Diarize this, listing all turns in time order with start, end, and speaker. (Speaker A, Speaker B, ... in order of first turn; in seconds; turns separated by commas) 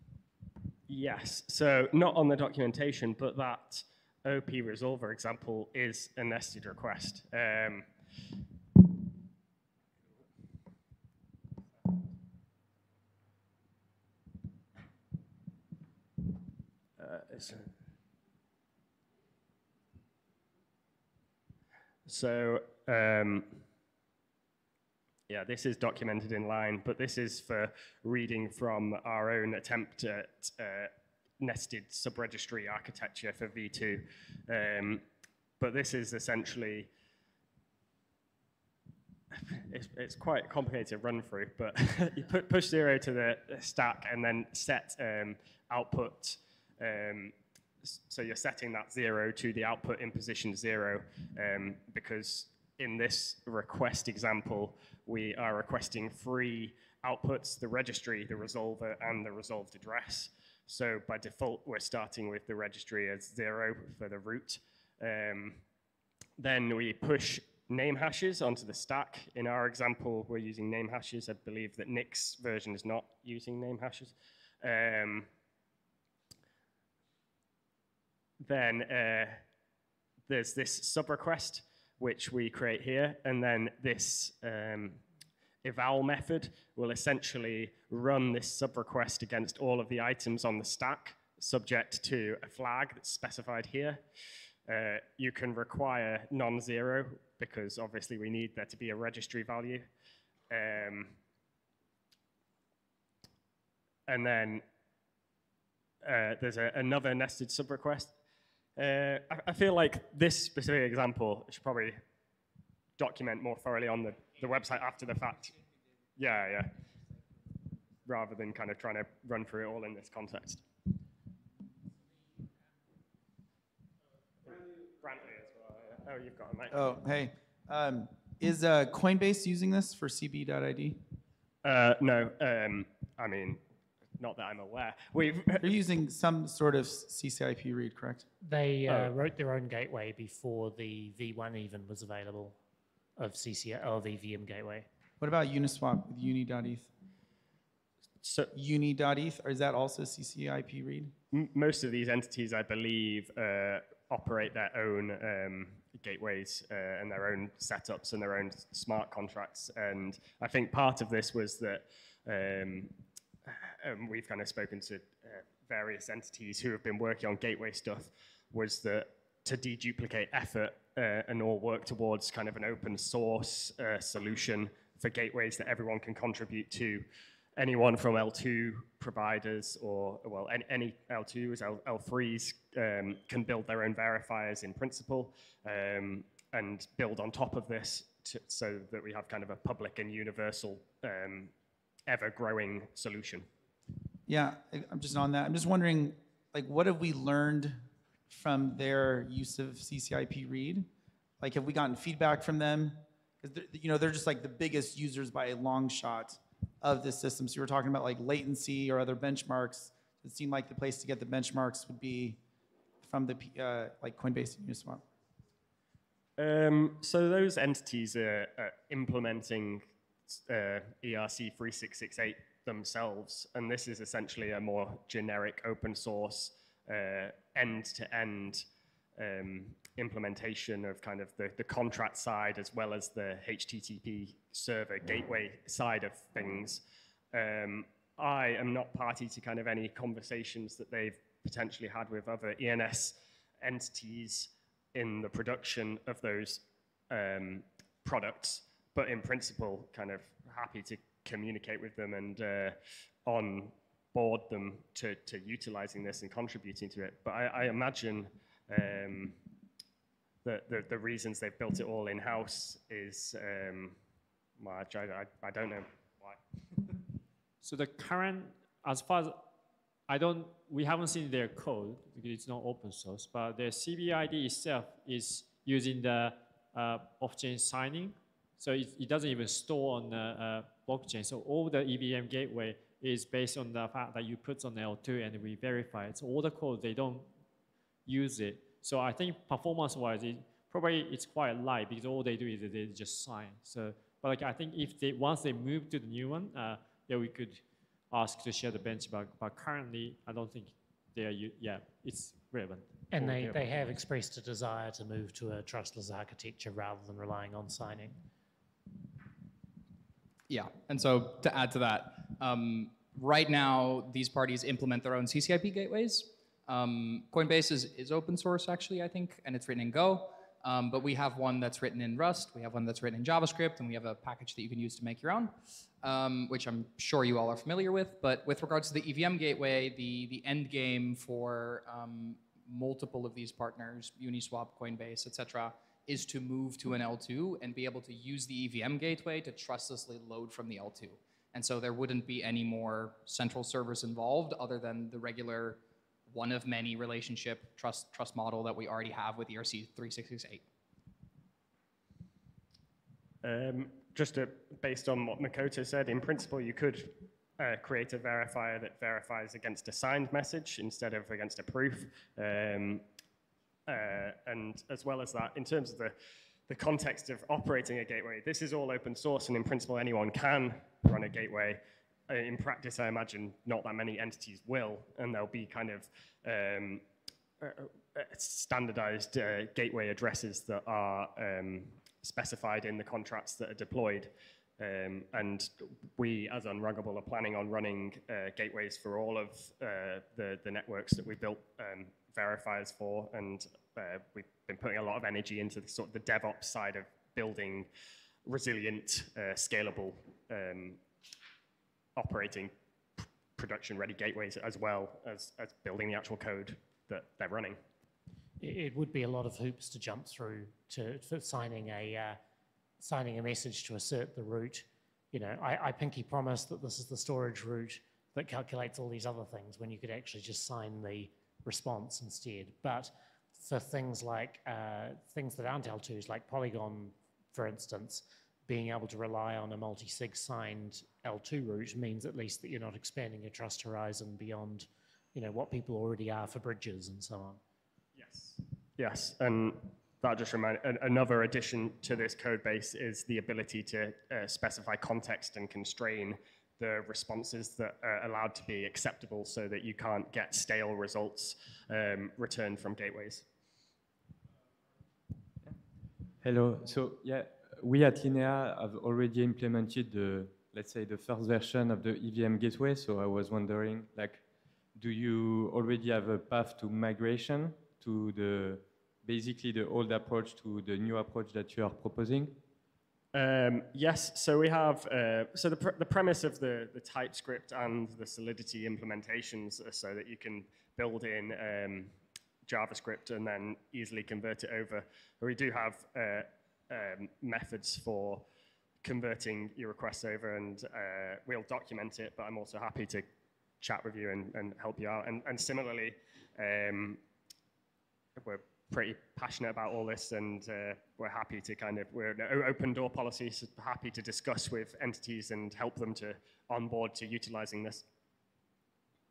Speaker A: 0.9-7.9, Speaker A: 17.0-17.7, Speaker A: 22.1-23.6, Speaker A: 25.3-35.0, Speaker A: 35.6-36.9, Speaker A: 39.5-65.6, Speaker A: 66.4-75.3, Speaker A: 78.4-79.4, Speaker A: 80.3-85.0, Speaker A: 85.6-94.0, Speaker A: 94.7-99.9, Speaker A: 100.5-101.2, Speaker A: 104.1-104.6, Speaker A: 106.0-108.1, Speaker A: 108.8-112.0, Speaker A: 113.0-115.6, Speaker A: 116.2-116.7, Speaker A: 118.0-120.6, Speaker A: 124.4-126.9, Speaker B: 126.7-131.0, Speaker A: 131.6-133.6, Speaker A: 134.2-135.6, Speaker B: 135.6-138.2, Speaker C: 138.4-142.6, Speaker C: 143.2-144.8, Speaker B: 145.2-146.9, Speaker A: 148.2-148.5, Speaker B: 148.5-151.1, Speaker A: 151.3-177.1, Speaker A: 177.6-191.5, Speaker A: 192.1-193.5, Speaker B: 194.3-200.9, Speaker B: 201.4-212.4, Speaker B: 213.0-215.0, Speaker A: 216.4-219.9, Speaker A: 220.5-228.6, Speaker A: 229.2-236.8, Speaker A: 237.3-259.4, Speaker A: 260.4-264.0, Speaker A: 264.6-266.4, Speaker D: 267.6-269.4, Speaker D: 270.1-287.3, Speaker D: 288.1-303.6, Speaker C: 303.1-308.1, Speaker E: 310.5-350.6, Speaker A: 353.4-363.0, Speaker A: 363.9-366.1, Speaker A: 366.7-377.0, Speaker A: 377.6-397.9, Speaker A: 398.4-401.0, Speaker A: 402.1-407.8, Speaker C: 408.6-412.4, Speaker C: 413.0-437.6, Speaker A: 438.1-453.4, Speaker F: 456.4-464.4, Speaker F: 464.9-472.6, Speaker A: 473.3-482.1, Speaker A: 482.7-488.4, Speaker A: 489.0-493.2, Speaker A: 493.8-497.2, Speaker A: 498.4-508.0